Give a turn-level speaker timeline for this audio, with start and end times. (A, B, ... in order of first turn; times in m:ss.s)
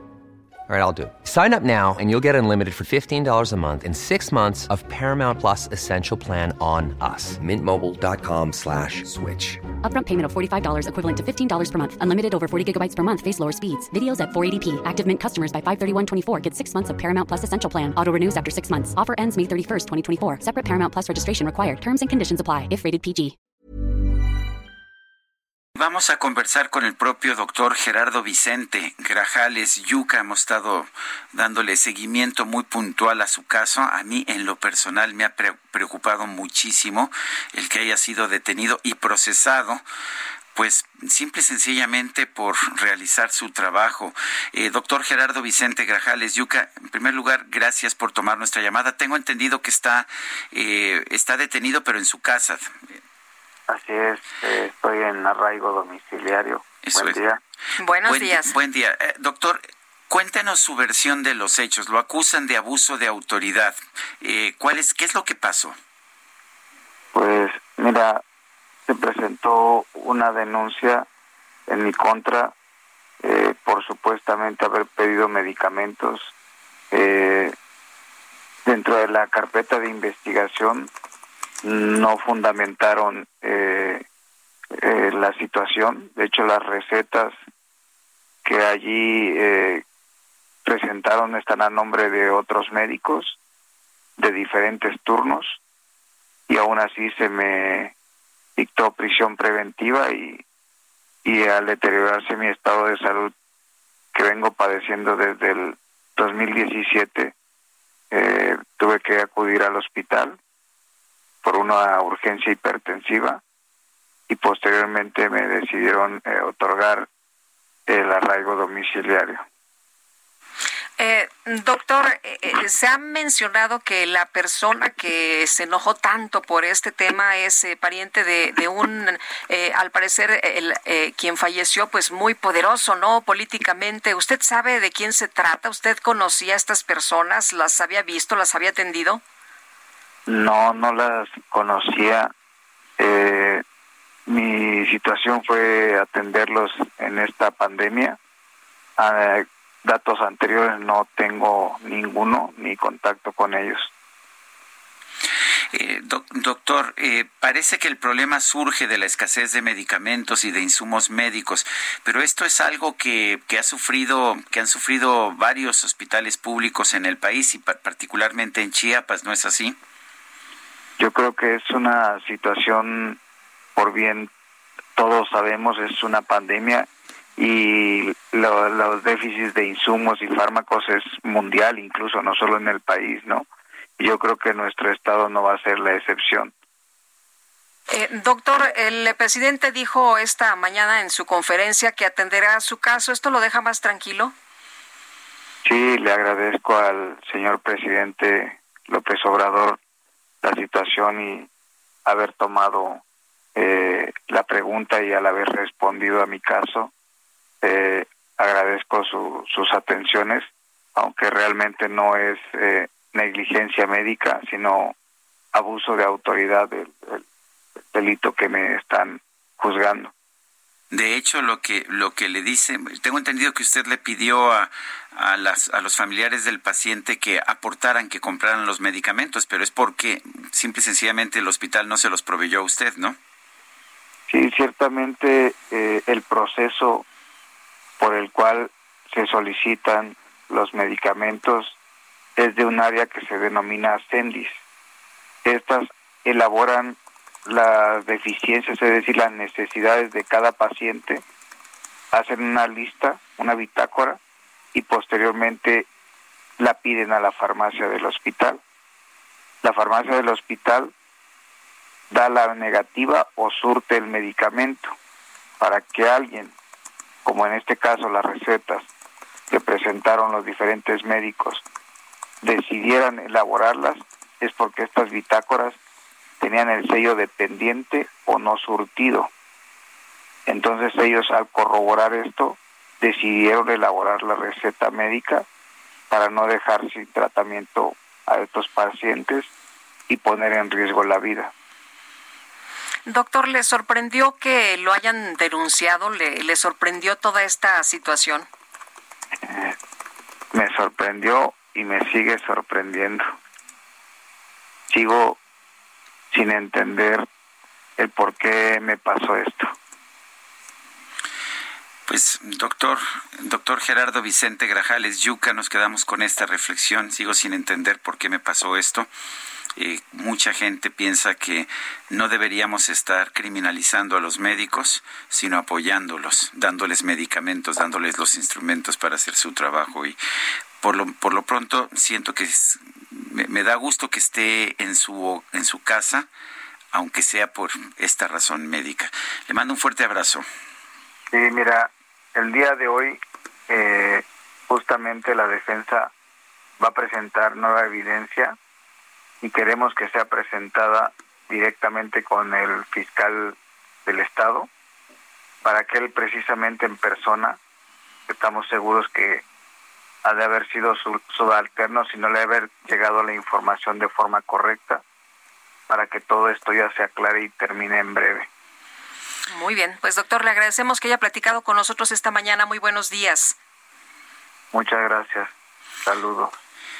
0:00.7-0:09.6 A
0:09.8-0:23.3 B
0:25.7-0:39.8 C
0:40.6-0:52.7 C
0:53.7-0:57.4 D
0:56.8-0:57.2 C
0:57.8-0:58.5 E
0:58.0-1:05.8 C
1:07.1-1:08.2 D
1:08.9-1:11.1 D
1:11.7-1:12.5 D
1:13.2-1:16.3 D
1:16.9-1:17.5 D
1:18.6-1:20.9 D
1:21.6-1:24.0 D
1:24.8-1:27.3 D
1:28.4-1:29.8 D
1:30.6-1:33.4 D
1:34.2-1:35.6 D
1:36.5-1:37.9 D
1:38.6-1:40.4 D
1:41.2-1:43.3 D
1:44.1-1:47.3 D
1:48.1-1:50.4 D
1:51.4-1:53.4 D
1:54.3-1:57.1 D
1:57.9-1:59.4 D
2:01.0-2:19.2 E
2:20.3-2:22.3 D
2:23.0-2:23.6 D
2:24.3-2:28.2 D
2:29.0-2:33.9 D
2:35.7-2:49.8 C
2:51.0-2:53.2 D
2:53.8-2:54.3 D
2:55.0-3:03.4 D
3:04.0-3:06.5 D
3:07.9-3:14.3 E
3:15.6-3:19.8 D
3:20.4-3:21.5 D
3:22.0-3:23.0 D
3:23.5-3:26.9 D
3:27.6-3:34.9 D
3:35.5-3:37.2 D
3:37.9-3:40.1 D
3:40.9-3:53.2 C
3:54.3-3:57.0 D
3:58.0-4:01.8 D
4:02.4-4:04.6 D
4:05.4-4:11.2 D
4:12.1-4:14.2 D
4:14.7-4:15.8 D
4:16.6-4:18.6 D
4:19.6-4:20.9 D
4:22.1-4:24.9 D
4:25.6-4:26.5 D
4:27.2-4:28.9 D
4:29.5-4:31.6 D
4:32.4-4:35.8 D
4:36.4-4:39.3 D
4:40.4-4:45.4 D
4:46.1-4:49.5 D
4:50.1-4:51.5 D
4:53.1-4:58.5 E
4:59.5-4:59.7 D
5:00.5-5:03.2 D
5:04.9-5:05.4 D
5:06.3-5:07.2 D
5:08.0-5:09.7 D
5:12.1-5:19.1 C
5:19.8-5:30.2 C
5:30.8-5:36.3 C
5:36.9-5:40.4 C
5:41.3-5:46.1 D
5:46.8-5:48.6 D
5:49.4-5:54.7 D
5:55.6-5:57.6 D
5:58.3-5:59.4 D
6:00.2-6:05.0 D
6:05.9-6:08.5 D
6:09.5-6:13.6 E
6:14.7-6:15.5 D
6:16.0-6:16.5 D